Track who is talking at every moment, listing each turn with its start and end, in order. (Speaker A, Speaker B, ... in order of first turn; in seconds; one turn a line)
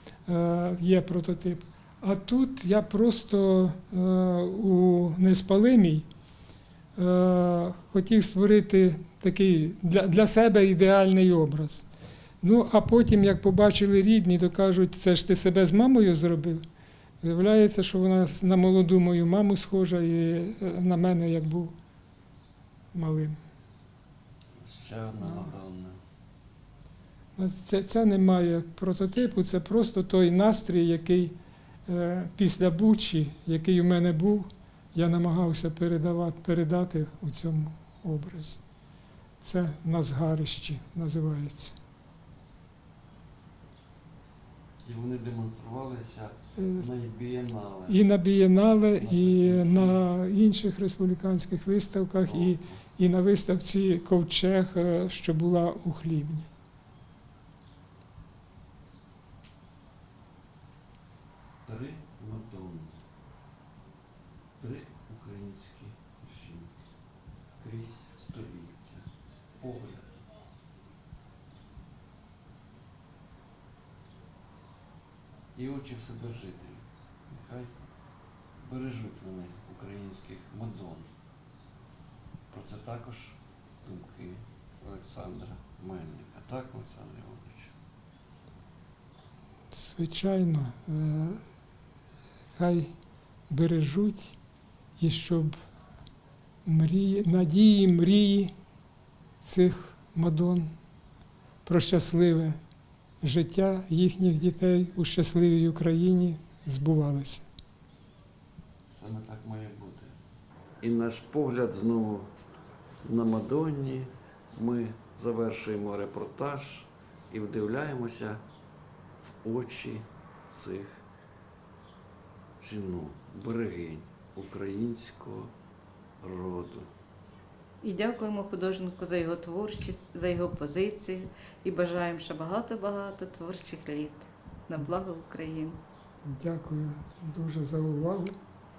Speaker A: 0.3-6.1
Speaker A: 7.0-11.9
Speaker A: 12.4-16.6
Speaker A: 17.2-21.7
Speaker A: 22.9-23.4
Speaker B: 24.6-26.0
Speaker A: 27.4-31.4
Speaker A: 31.9-38.6
Speaker A: 39.4-41.8
Speaker B: 44.8-48.0
Speaker A: 46.6-46.8
Speaker A: 47.9-56.5
Speaker B: 49.0-50.0
Speaker B: 52.3-52.7
Speaker B: 61.6-63.0
Speaker B: 64.6-66.7
Speaker B: 67.6-69.0
Speaker B: 69.6-70.2
Speaker B: 75.5-77.7
Speaker B: 78.6-81.1
Speaker B: 82.5-87.7
Speaker A: 89.7-91.4
Speaker A: 92.5-92.9
Speaker A: 93.5-94.4
Speaker A: 95.0-95.6
Speaker A: 96.6-98.5
Speaker A: 99.4-100.7
Speaker A: 101.6-102.6
Speaker A: 103.2-107.5
Speaker B: 108.9-110.1
Speaker B: 110.8-112.3
Speaker B: 113.0-118.4
Speaker B: 119.2-121.0
Speaker B: 122.6-125.5
Speaker B: 126.2-126.9
Speaker C: 127.8-135.8
Speaker A: 136.2-138.3